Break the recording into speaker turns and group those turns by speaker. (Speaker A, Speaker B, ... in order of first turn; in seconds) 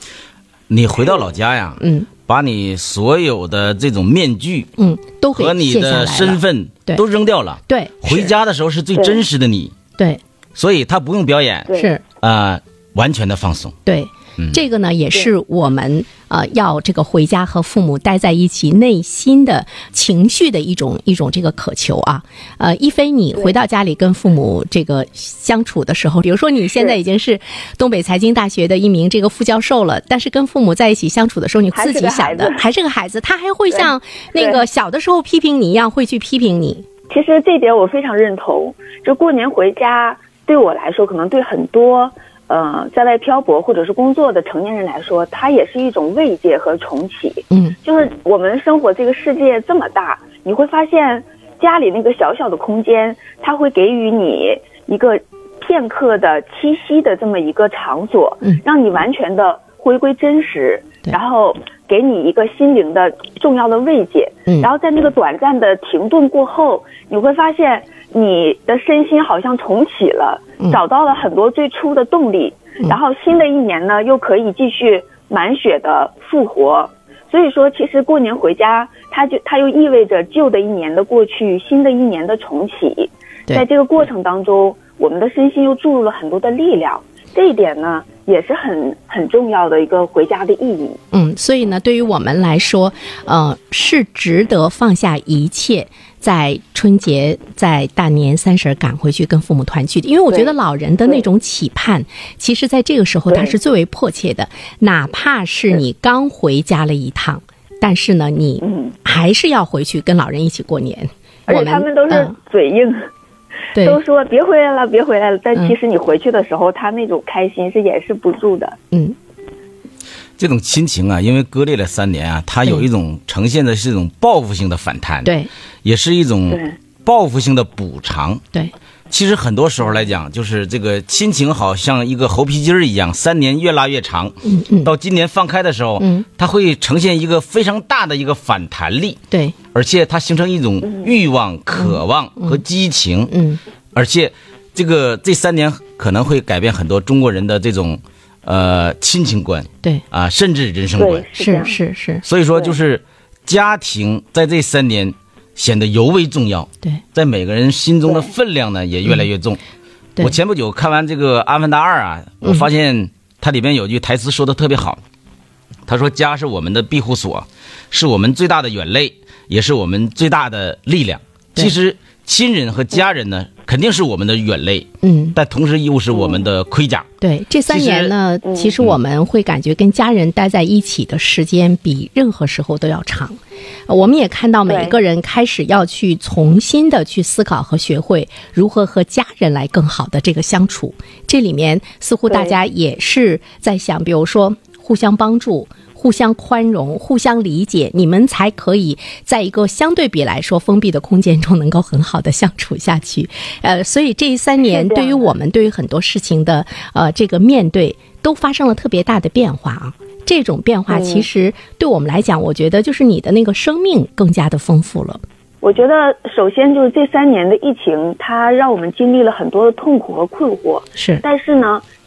Speaker A: 0.7-4.7, 5.3-9.7, 10.6-13.8, 120.4-128.4, 129.1-139.2, 139.7-143.4, 143.9-151.3, 152.2-159.6, 160.2-165.0, 165.9-177.1, 177.7-178.1
Speaker B: 1.8-2.1, 4.8-7.1, 7.7-8.3, 11.7-12.0, 13.9-36.9, 47.5-47.8, 64.5-64.7, 91.1-112.4, 113.7-114.0, 122.6-122.9, 125.2-125.5, 134.4-134.9, 136.0-136.3, 139.3-139.6, 141.7-142.7, 143.3-143.6, 151.4-152.3, 159.1-159.3, 162.4-162.7, 175.0-175.4, 177.2-215.2, 221.0-221.2
Speaker C: 8.9-9.2, 31.7-32.6, 33.7-34.6, 37.1-91.0, 100.3-101.2, 103.3-103.5, 108.6-109.0, 111.5-113.1, 113.8-118.8, 126.5-126.8, 151.0-151.8, 158.1-158.3, 176.1-176.4, 178.4-178.7, 184.7-185.0, 192.3-192.6, 204.7-205.3, 210.9-211.3, 215.6-221.8